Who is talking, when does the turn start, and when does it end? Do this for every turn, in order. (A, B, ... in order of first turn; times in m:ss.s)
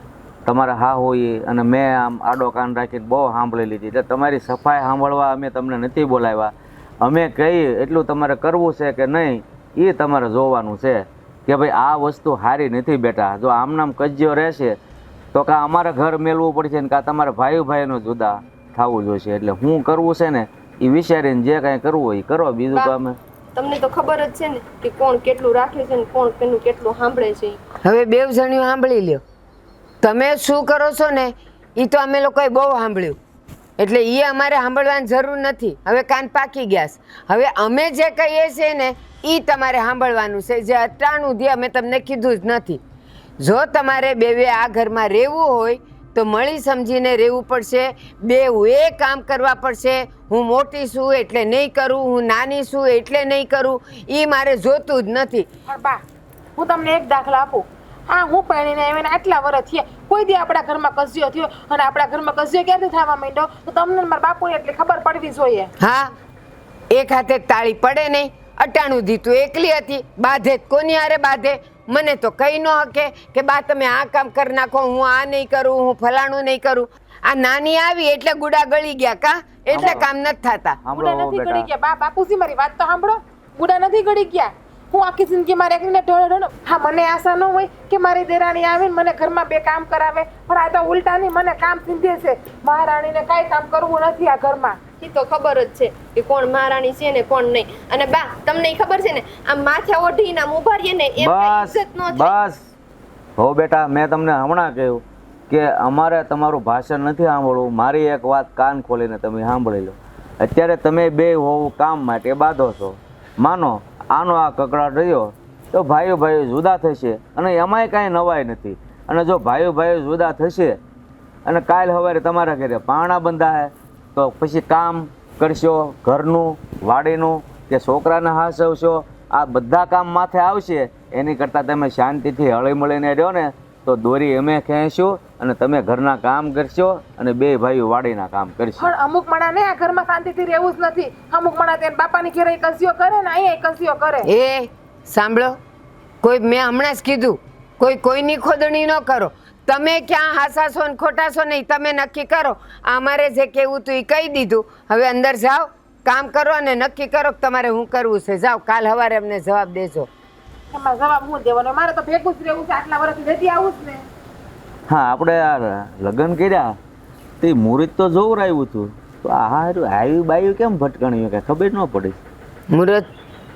0:00.4-0:14.8 A
0:15.3-0:23.2 A
0:23.5-0:27.6 B
0:27.8-0:29.2 C
0:30.0-0:33.2 C
0:33.8-0:42.8 C
0:43.4-0:55.5 C
0:55.7-0:56.0 D
0:56.6-1:05.7 D
1:05.8-1:06.1 C
1:06.9-1:20.8 C
1:19.7-1:20.1 A
1:20.8-1:21.7 A
1:20.9-1:34.8 D
1:35.0-1:42.4 B
1:41.2-1:42.6 A
1:43.4-2:00.8 A
2:01.4-2:18.9 A
2:18.8-2:24.3 D
2:24.2-2:25.6 C
2:26.2-2:40.1 C
2:40.7-2:44.0 D
2:44.9-2:46.7 A
2:47.4-2:52.2 A
2:52.7-2:53.0 C